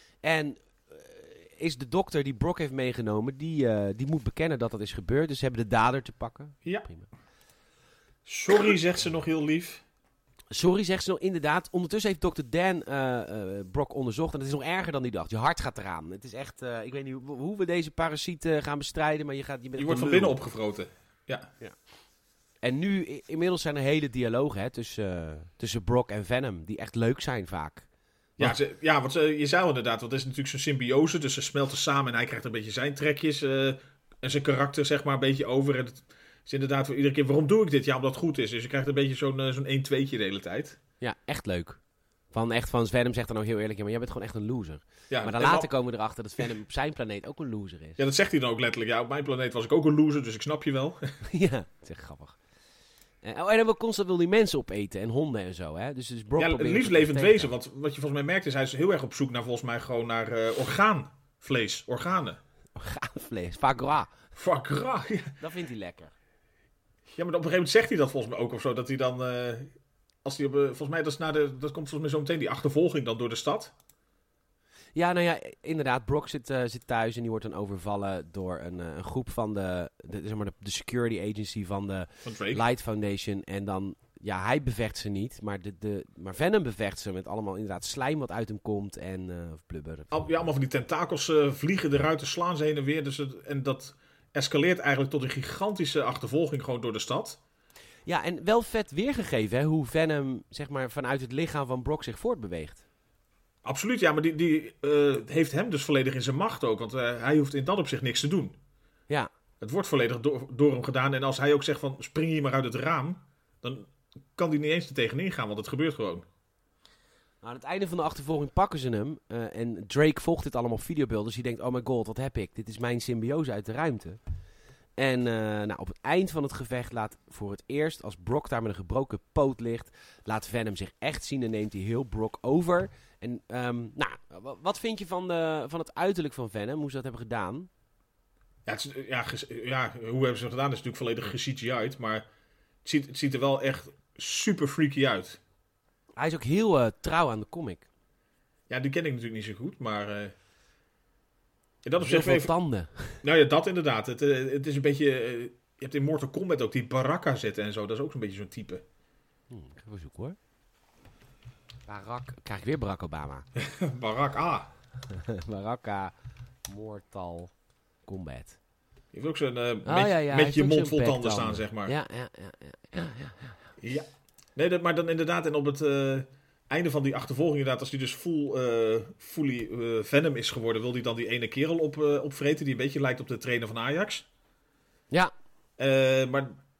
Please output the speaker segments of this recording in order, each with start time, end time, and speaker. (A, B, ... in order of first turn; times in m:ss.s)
0:00.2-0:07.1 A
0:08.2-0:09.8 B
0:10.5-0:20.4 A
0:19.8-0:21.5 B
0:22.6-0:27.8 A
0:28.4-0:40.8 B
0:41.0-0:41.8 A
0:42.3-0:48.0 A
0:45.1-0:45.7 B
0:48.0-0:51.1 B
0:51.2-0:52.4 A
0:53.2-0:57.5 A
0:56.4-1:02.4 B
1:02.8-1:04.1 A
1:04.4-1:05.3 B
1:05.4-1:06.1 A
1:07.1-1:09.7 B
1:10.2-1:13.7 B
1:15.0-1:30.3 A
1:22.2-1:22.6 B
1:30.1-1:37.4 B
1:38.0-1:42.8 A
1:43.6-1:48.6 B
1:49.6-1:56.2 B
1:57.4-2:04.2 A
2:05.0-2:17.7 A
2:18.6-2:22.2 B
2:22.8-2:25.4 B
2:26.2-2:27.9 A
2:28.7-2:30.3 B
2:31.8-2:32.5 B
2:32.0-2:33.2 A
2:33.2-2:38.8 B
2:39.5-2:40.4 A
2:41.9-2:43.4 A
2:43.6-2:44.7 B
2:45.1-2:46.1 A
2:46.7-2:47.5 A
2:48.0-2:48.6 A
2:49.1-2:51.9 B
2:49.8-2:53.7 A
2:53.8-3:04.2 B
3:05.8-3:06.6 B